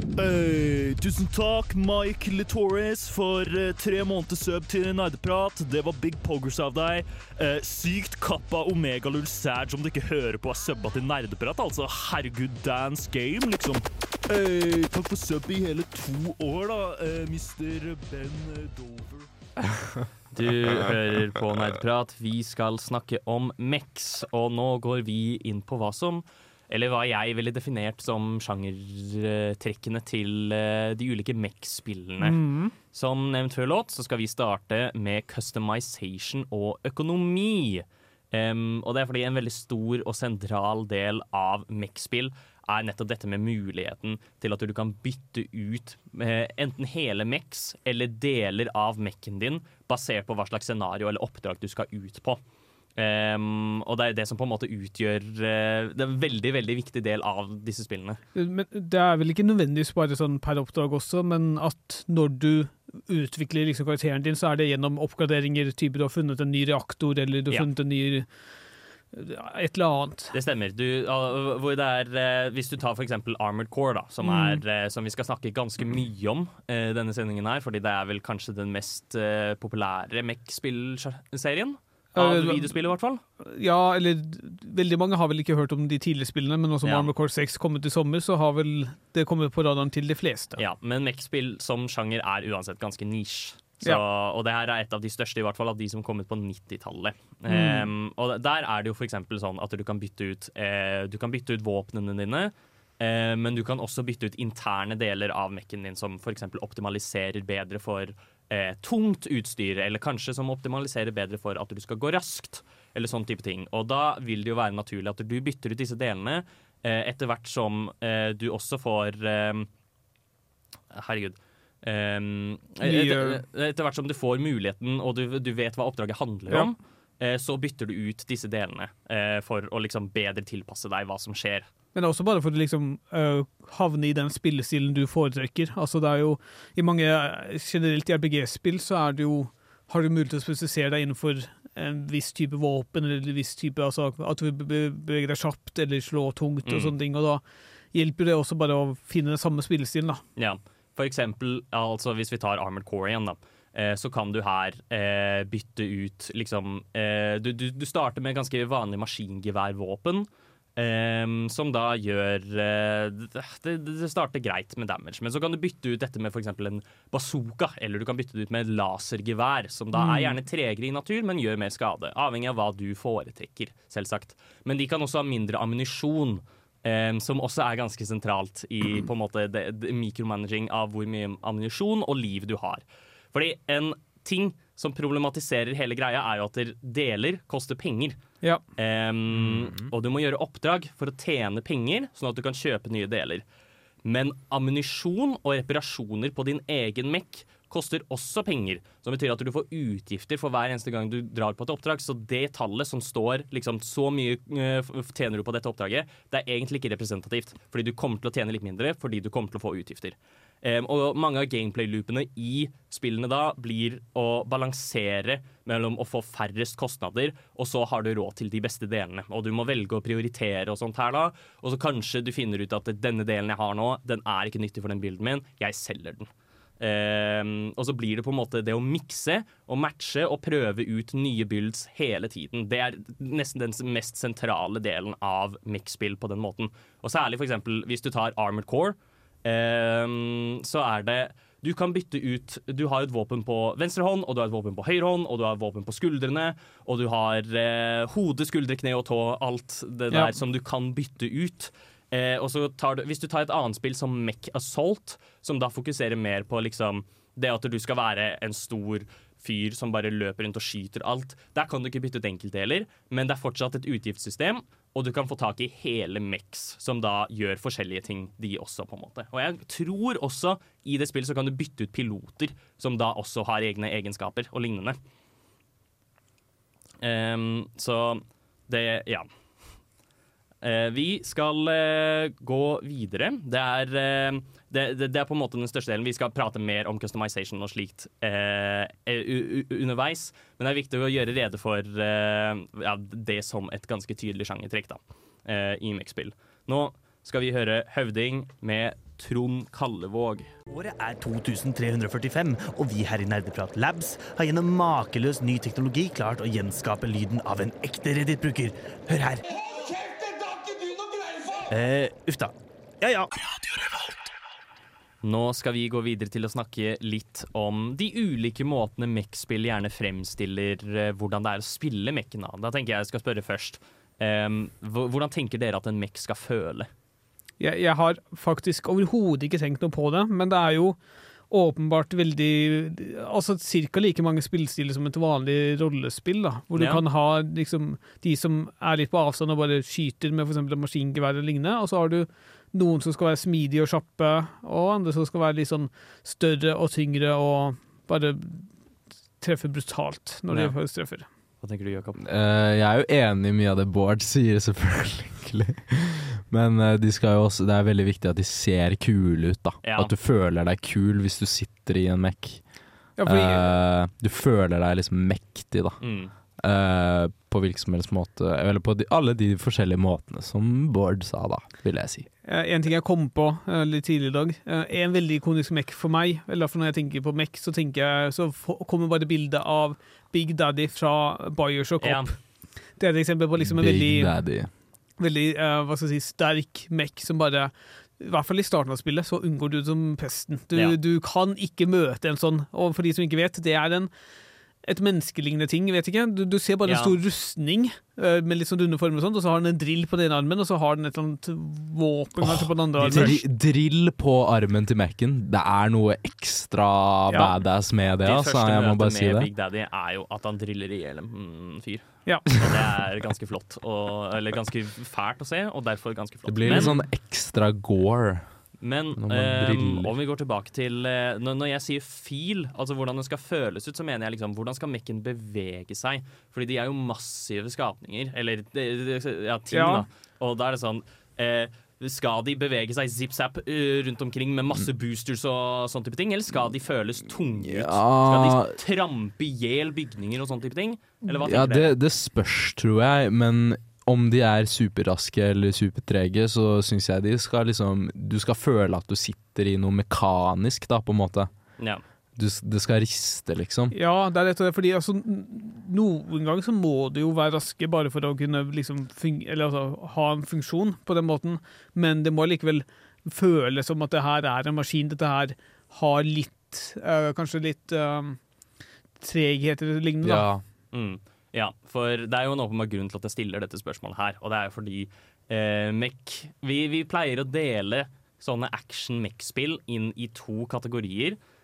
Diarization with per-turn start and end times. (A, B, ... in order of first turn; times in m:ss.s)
0:00.2-0:19.3 A
0:20.3-0:32.4 B
0:32.2-0:32.7 C
0:32.9-0:52.4 B
0:53.0-0:58.2 B
0:58.4-1:08.3 C
1:09.1-1:10.3 C
1:10.3-1:23.2 B
1:14.2-1:14.6 C
1:22.2-1:22.8 C
1:23.4-1:30.6 C
1:26.8-1:27.1 B
1:30.6-1:59.7 B
1:37.5-1:37.9 C
2:00.9-2:11.7 B
2:02.8-2:03.4 C
2:12.0-2:27.4 C
2:26.6-2:26.9 B
2:27.9-2:30.2 C
2:30.4-3:08.2 B
2:50.0-2:50.4 C
3:08.8-3:13.4 B
3:09.3-3:09.9 D
3:14.0-4:35.0 B
4:10.1-4:10.4 C
4:37.0-4:39.3 B
4:40.6-5:00.5 B
5:00.7-5:09.4 E
5:11.7-5:13.3 E
5:15.2-5:26.9 B
5:27.6-5:31.0 C
5:31.5-5:48.7 C
5:36.8-5:37.0 B
5:49.4-5:51.3 C
5:51.6-5:52.2 B
5:52.2-6:02.6 D
5:59.8-6:00.1 B
6:03.2-6:03.7 C
6:03.2-6:06.0 D
6:06.0-6:06.3 B
6:06.6-6:12.3 D
6:12.4-6:22.4 C
6:22.0-6:22.3 B
6:23.0-6:24.3 C
6:23.6-6:24.7 D
6:25.2-6:34.1 C
6:34.8-6:43.4 C
6:36.9-6:37.2 B
6:42.4-6:49.5 D
6:43.0-6:43.3 B
6:48.2-6:57.0 B
6:56.5-6:58.5 D
6:56.7-6:56.9 C
6:58.8-7:21.9 B
6:59.2-7:00.1 D
7:09.7-7:10.0 C
7:17.6-7:18.8 D
7:21.3-7:31.5 D
7:32.4-7:34.0 D
7:33.9-7:48.4 C
7:49.2-7:50.5 C
7:50.2-7:50.6 D
7:50.9-8:01.4 B